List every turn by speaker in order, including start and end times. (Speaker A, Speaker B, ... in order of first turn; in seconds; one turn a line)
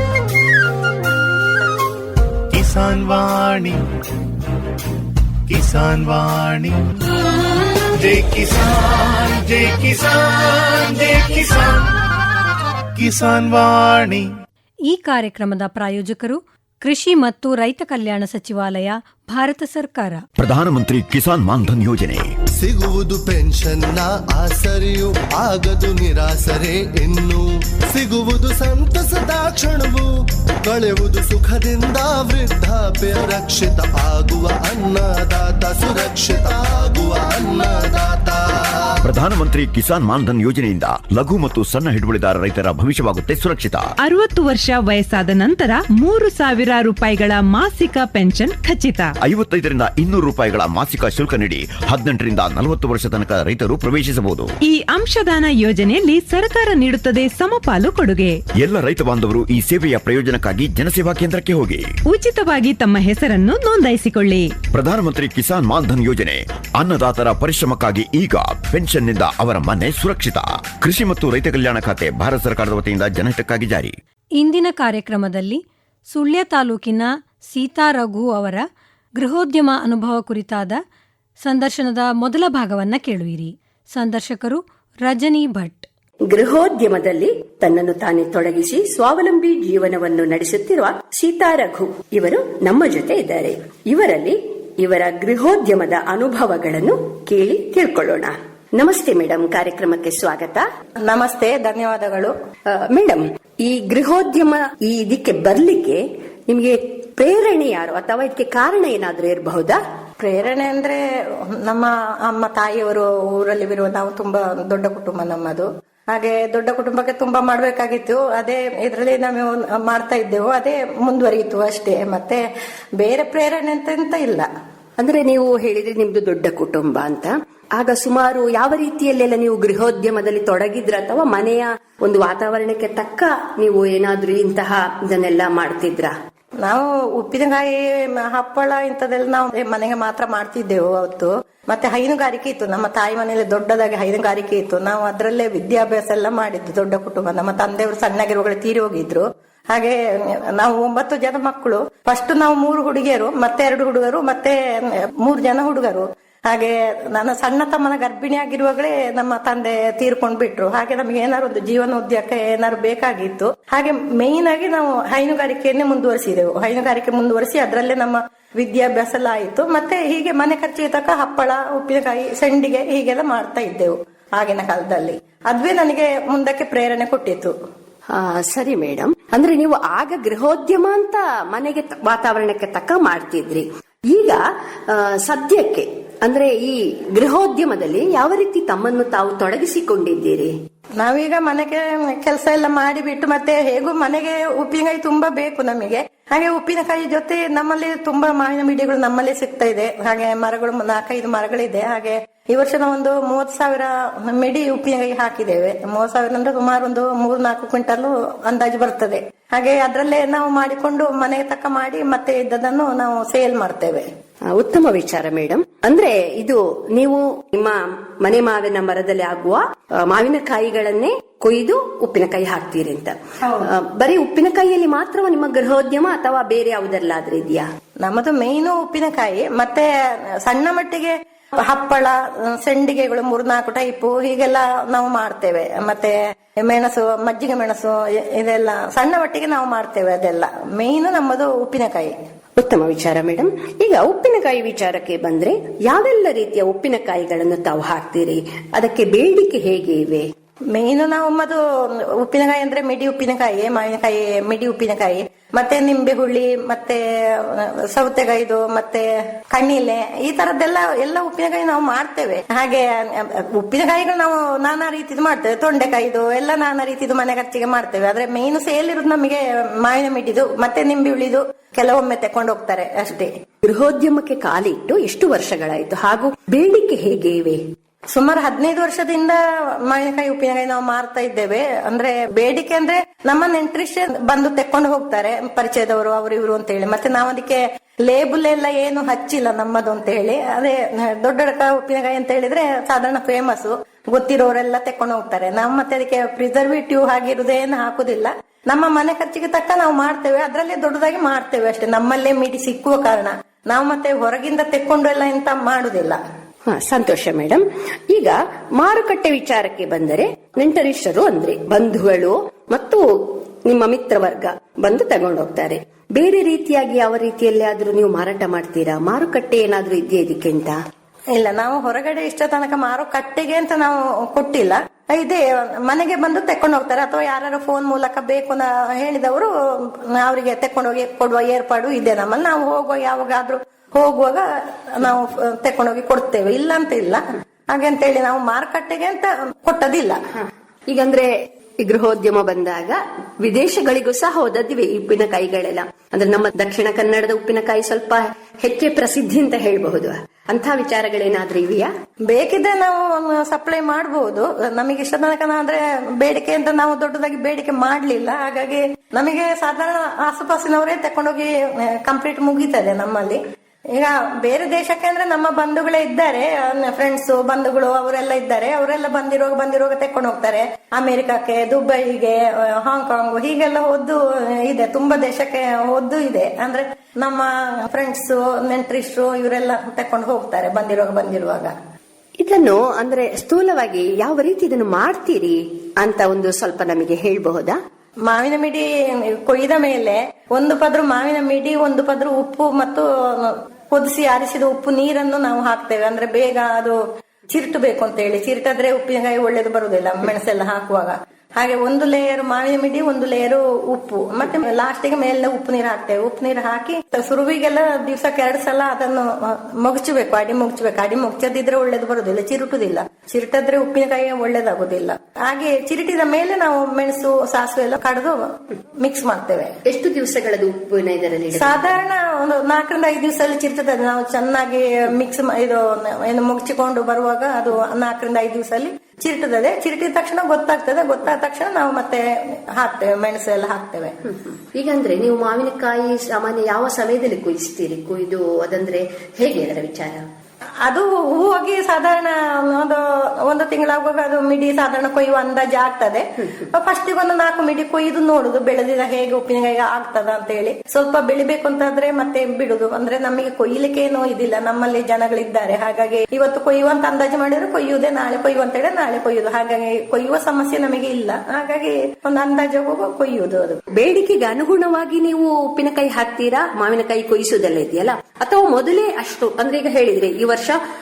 Speaker A: 2.5-3.8
Speaker A: 5.5-6.7
Speaker A: 7.5-11.9
Speaker A: 13.0-14.2
Speaker B: 14.9-20.2
Speaker C: 20.4-22.3
Speaker D: 22.6-30.1
Speaker D: 30.6-38.4
Speaker C: 39.0-43.8
Speaker E: 44.0-49.1
Speaker C: 49.2-54.5
Speaker E: 54.6-58.4
Speaker C: 58.6-61.9
Speaker E: 62.1-64.5
Speaker C: 64.7-73.9
Speaker B: 74.4-78.6
Speaker B: 79.2-80.8
Speaker B: 81.4-85.9
Speaker F: 86.3-100.6
Speaker G: 101.0-102.3
Speaker F: 102.7-109.8
Speaker G: 110.2-122.4
Speaker G: 123.0-124.5
Speaker F: 125.0-136.1
Speaker G: 136.6-177.5
Speaker F: 178.1-190.5
Speaker G: 191.0-214.1
Speaker F: 214.5-227.7
Speaker G: 223.4-223.7
Speaker G: 228.0-229.9
Speaker G: 230.4-242.1
Speaker F: 242.6-250.3
Speaker G: 250.7-273.3
Speaker F: 273.6-277.7
Speaker G: 278.1-306.2
Speaker F: 306.7-320.8
Speaker G: 321.3-340.2
Speaker F: 340.4-341.3
Speaker F: 341.8-351.9
Speaker G: 352.3-363.4
Speaker G: 363.9-381.7
Speaker F: 382.4-387.8
Speaker G: 388.3-419.7
Speaker F: 419.9-422.0
Speaker G: 421.6-434.1
Speaker F: 434.7-440.2
Speaker G: 440.8-463.8
Speaker F: 463.9-470.8